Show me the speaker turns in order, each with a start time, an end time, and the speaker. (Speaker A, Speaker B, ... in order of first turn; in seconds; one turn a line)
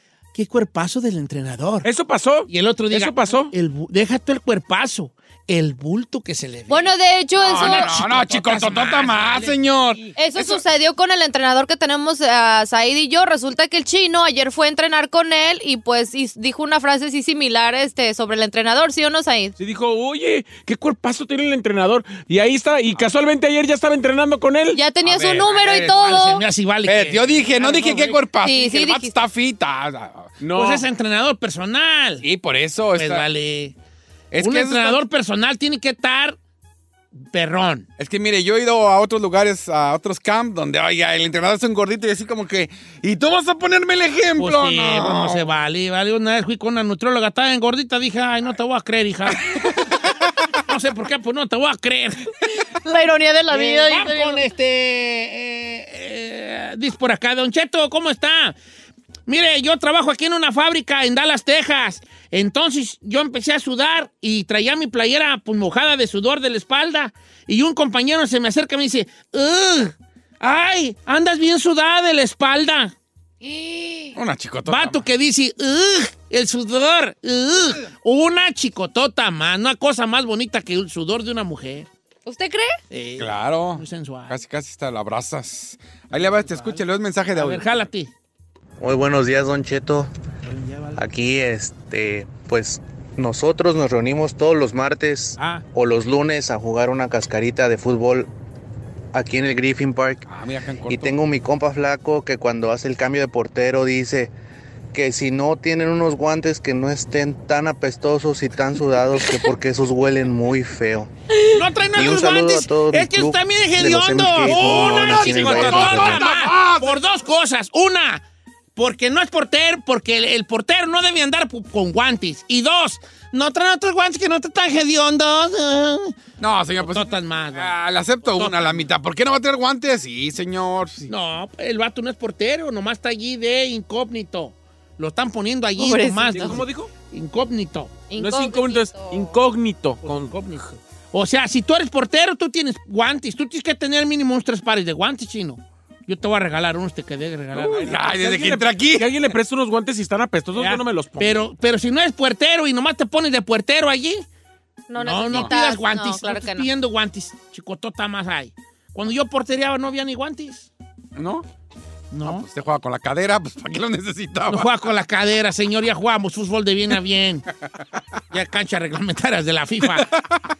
Speaker A: 0.3-1.9
Speaker B: 1.8-3.5
Speaker A: 2.5-10.1
Speaker C: 6.7-7.9
Speaker D: 7.4-10.6
Speaker C: 10.2-19.6
Speaker B: 19.6-24.8
Speaker C: 24.7-26.4
Speaker D: 25.0-26.0
Speaker A: 25.6-28.2
Speaker D: 26.9-30.5
Speaker C: 28.4-29.1
Speaker B: 30.4-30.8
Speaker A: 30.6-32.2
Speaker D: 32.2-33.3
Speaker A: 33.0-33.7
Speaker D: 34.3-35.0
Speaker A: 34.4-36.4
Speaker A: 37.2-37.9
Speaker D: 38.0-45.4
Speaker A: 44.4-49.8
Speaker A: 50.7-52.3
Speaker C: 52.9-54.5
Speaker A: 53.5-58.6
Speaker A: 59.3-74.2
Speaker D: 74.2-75.0
Speaker A: 74.7-81.9
Speaker C: 82.3-82.8
Speaker A: 82.9-84.3
Speaker D: 83.2-87.7
Speaker A: 86.1-88.1
Speaker E: 88.8-90.1
Speaker A: 90.5-91.0
Speaker E: 91.0-98.3
Speaker A: 95.4-95.6
Speaker E: 99.1-100.2
Speaker D: 100.3-101.2
Speaker E: 100.9-104.3
Speaker E: 104.9-111.1
Speaker A: 111.5-118.2
Speaker E: 112.0-116.2
Speaker D: 114.4-117.0
Speaker A: 118.8-126.2
Speaker D: 126.4-131.1
Speaker A: 126.8-128.9
Speaker A: 131.1-138.0
Speaker C: 135.8-136.6
Speaker B: 136.4-136.9
Speaker C: 138.1-139.4
Speaker B: 138.1-140.3
Speaker A: 140.0-148.2
Speaker D: 147.5-149.2
Speaker B: 147.7-151.4
Speaker A: 150.6-154.2
Speaker C: 154.9-156.7
Speaker A: 155.0-160.7
Speaker D: 161.2-161.4
Speaker A: 162.1-162.5
Speaker D: 162.2-164.7
Speaker A: 164.5-167.4
Speaker A: 168.3-170.1
Speaker D: 169.9-170.3